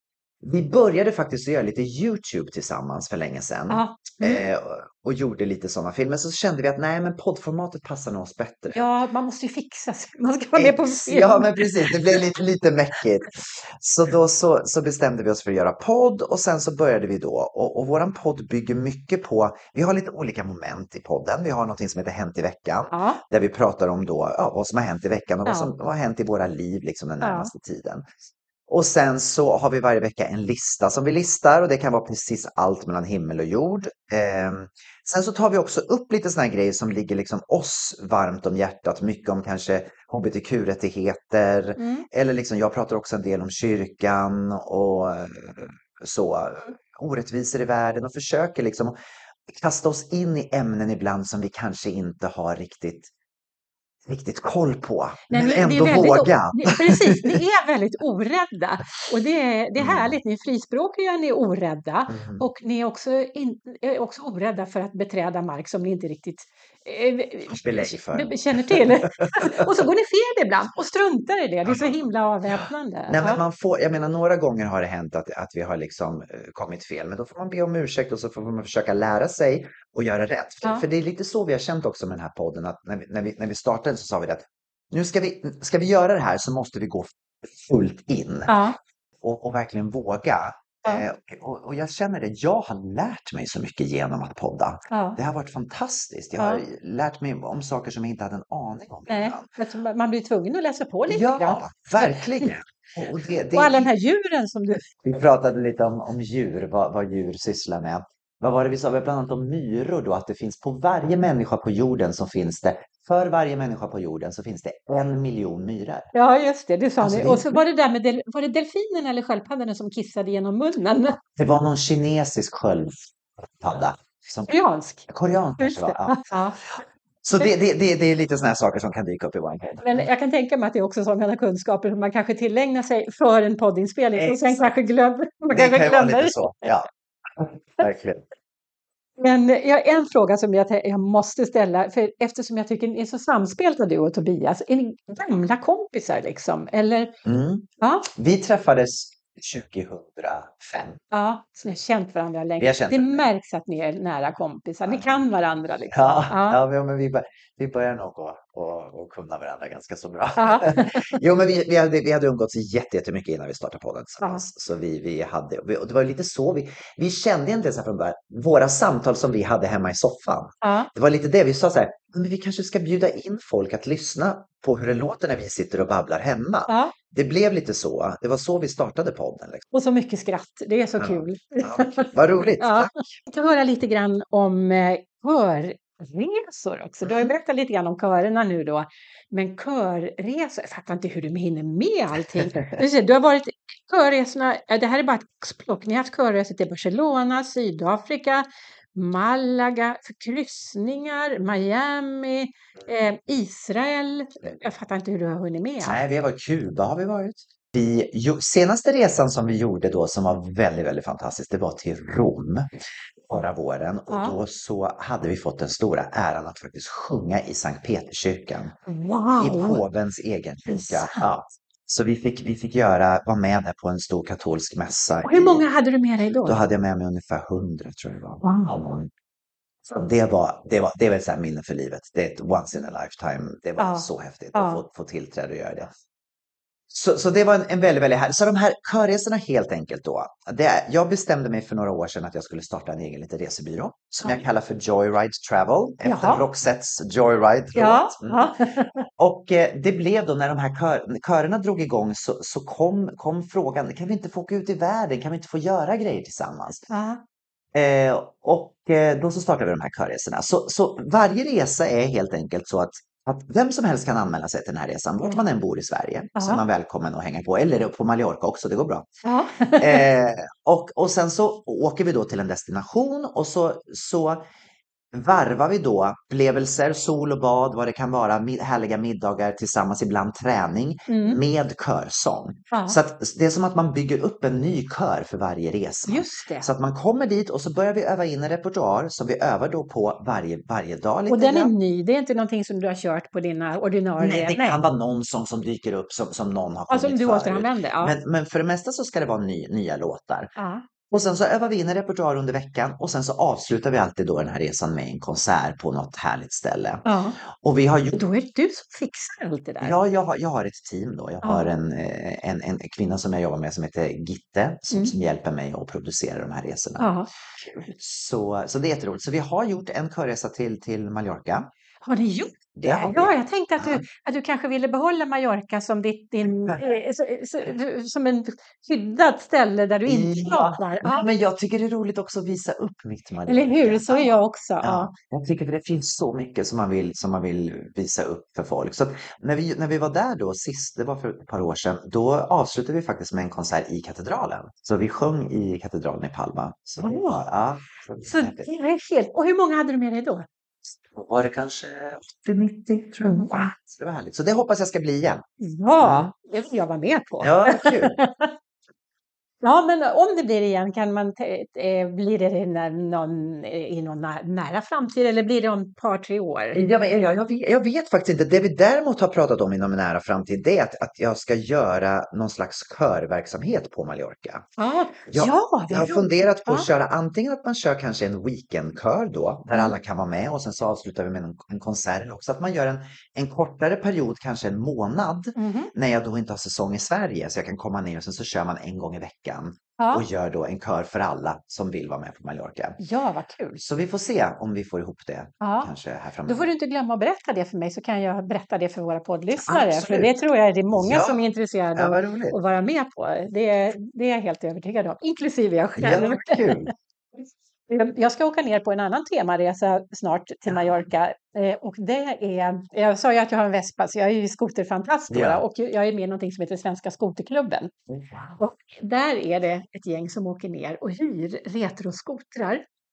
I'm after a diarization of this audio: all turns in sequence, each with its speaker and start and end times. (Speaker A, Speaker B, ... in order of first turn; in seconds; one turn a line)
Speaker A: 0.4-8.9
Speaker B: 3.7-4.4
Speaker B: 8.7-12.2
Speaker A: 10.5-28.1
Speaker B: 22.9-23.2
Speaker B: 25.4-25.7
Speaker B: 27.2-27.5
Speaker A: 28.7-53.1
Speaker B: 41.8-42.1
Speaker A: 54.0-57.4
Speaker B: 55.3-73.4
Speaker A: 59.8-60.1
Speaker A: 62.1-62.4
Speaker A: 67.5-69.7
Speaker A: 71.6-72.6
Speaker A: 73.1-88.5
Speaker B: 88.5-88.8
Speaker A: 89.2-99.5
Speaker B: 94.9-95.2
Speaker B: 96.4-96.6
Speaker B: 99.1-102.5
Speaker A: 101.1-103.9
Speaker B: 103.5-104.8
Speaker A: 105.0-116.1
Speaker B: 116.1-121.2
Speaker A: 117.0-117.6
Speaker A: 121.3-126.6
Speaker B: 124.5-125.1
Speaker B: 125.6-126.6
Speaker A: 127.2-130.0
Speaker B: 129.8-136.7
Speaker A: 134.2-134.7
Speaker A: 135.5-138.2
Speaker B: 139.2-147.1
Speaker A: 147.2-151.0
Speaker B: 147.8-148.1
Speaker B: 151.1-156.6
Speaker A: 152.6-153.3
Speaker A: 154.8-155.2
Speaker A: 155.9-179.6
Speaker B: 160.4-161.2
Speaker B: 170.6-170.9
Speaker B: 176.7-176.9
Speaker B: 179.7-206.0
Speaker A: 181.0-182.9
Speaker A: 187.0-187.3
Speaker A: 192.4-192.8
Speaker A: 205.8-212.7
Speaker A: 213.2-218.8
Speaker B: 214.1-214.4
Speaker B: 218.9-219.8
Speaker A: 219.4-225.7
Speaker B: 220.7-221.2
Speaker B: 225.3-226.6
Speaker A: 226.4-229.1
Speaker B: 228.4-228.7
Speaker A: 229.8-235.9
Speaker B: 233.8-234.8
Speaker A: 236.9-248.5
Speaker B: 246.0-246.4
Speaker B: 247.8-249.0
Speaker A: 249.1-256.9
Speaker B: 256.9-257.2
Speaker A: 257.7-269.1
Speaker B: 266.4-266.6
Speaker B: 269.2-270.0
Speaker A: 269.7-274.4
Speaker A: 275.1-291.7
Speaker B: 281.1-281.4
Speaker B: 282.7-283.0
Speaker B: 286.1-286.7
Speaker B: 291.3-294.8
Speaker A: 294.2-300.5
Speaker B: 296.9-298.1
Speaker B: 300.6-300.8
Speaker A: 301.1-308.2
Speaker B: 307.0-307.4
Speaker B: 308.1-310.0
Speaker A: 309.8-321.7
Speaker B: 311.4-311.7
Speaker B: 317.0-317.3
Speaker B: 322.0-331.2
Speaker A: 322.8-324.0
Speaker A: 330.1-348.7
Speaker B: 333.5-335.1
Speaker B: 347.0-347.4
Speaker B: 348.2-350.4
Speaker A: 350.9-355.4
Speaker B: 353.2-353.5
Speaker B: 355.6-358.5
Speaker A: 356.0-356.3
Speaker A: 357.4-358.2
Speaker B: 359.6-366.8
Speaker A: 366.7-374.6
Speaker B: 374.8-376.9
Speaker A: 375.3-393.0
Speaker B: 385.6-385.9
Speaker B: 390.0-390.2
Speaker B: 393.0-393.8
Speaker A: 393.8-396.7
Speaker B: 395.6-395.9
Speaker B: 396.5-406.8
Speaker A: 399.6-400.3
Speaker A: 400.9-401.4
Speaker A: 401.9-402.6
Speaker A: 406.0-406.9
Speaker B: 407.9-417.9
Speaker A: 410.7-411.0
Speaker A: 415.3-415.6
Speaker A: 418.1-418.6
Speaker B: 418.6-422.8